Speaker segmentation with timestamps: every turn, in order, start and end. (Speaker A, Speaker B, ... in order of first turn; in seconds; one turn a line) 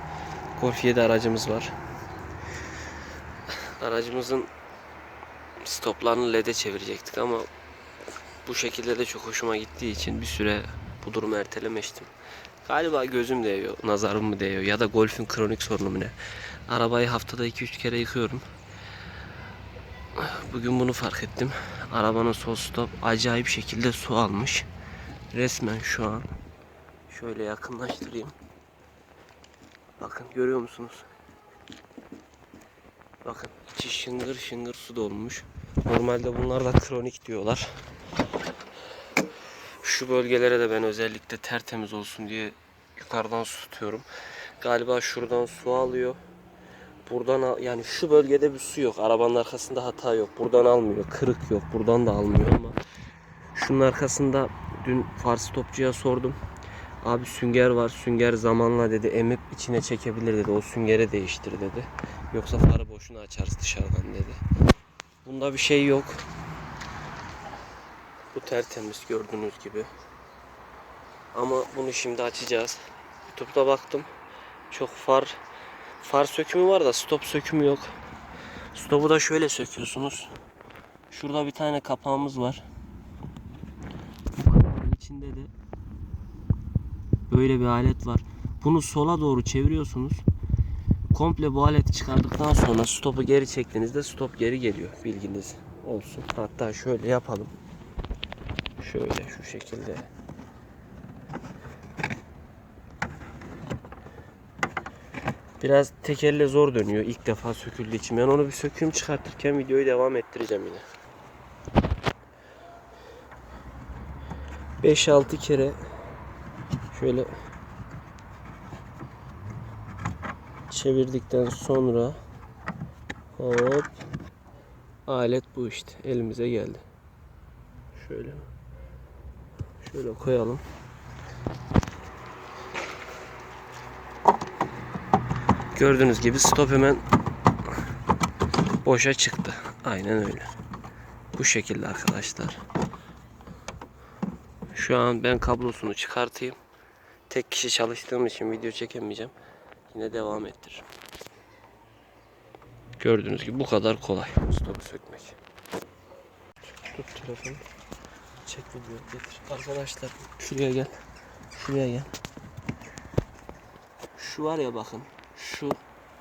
Speaker A: 0.6-1.7
Speaker A: 3.8-4.5
Speaker A: 5.6-7.5
Speaker A: 8.4-12.1
Speaker A: 12.7-16.2
Speaker A: 16.7-18.5
Speaker A: 20.2-24.7
Speaker A: 25.3-26.3
Speaker A: 27.1-28.3
Speaker A: 30.0-31.1
Speaker A: 33.2-37.7
Speaker A: 39.8-44.1
Speaker A: 44.6-46.2
Speaker A: 47.1-52.8
Speaker A: 53.5-56.4
Speaker A: 57.0-64.4
Speaker A: 65.2-66.2
Speaker A: 68.3-69.9
Speaker A: 71.3-74.1
Speaker A: 74.7-75.4
Speaker A: 76.0-77.9
Speaker A: 78.7-80.3
Speaker A: 81.1-82.7
Speaker A: 84.3-85.5
Speaker A: 87.3-90.2
Speaker A: 91.1-97.5
Speaker A: 98.8-100.1
Speaker A: 105.6-110.8
Speaker A: 114.8-115.8
Speaker A: 116.9-117.3
Speaker A: 120.7-122.2
Speaker A: 123.3-124.0
Speaker A: 125.1-126.8
Speaker A: 128.0-128.4
Speaker A: 129.8-130.6
Speaker A: 135.7-137.0
Speaker A: 138.8-140.5
Speaker A: 141.3-142.6
Speaker A: 144.7-146.6
Speaker A: 147.3-149.3
Speaker A: 149.9-150.8
Speaker A: 153.0-155.4
Speaker A: 156.7-157.6
Speaker A: 158.4-160.9
Speaker A: 161.5-162.1
Speaker A: 164.2-165.8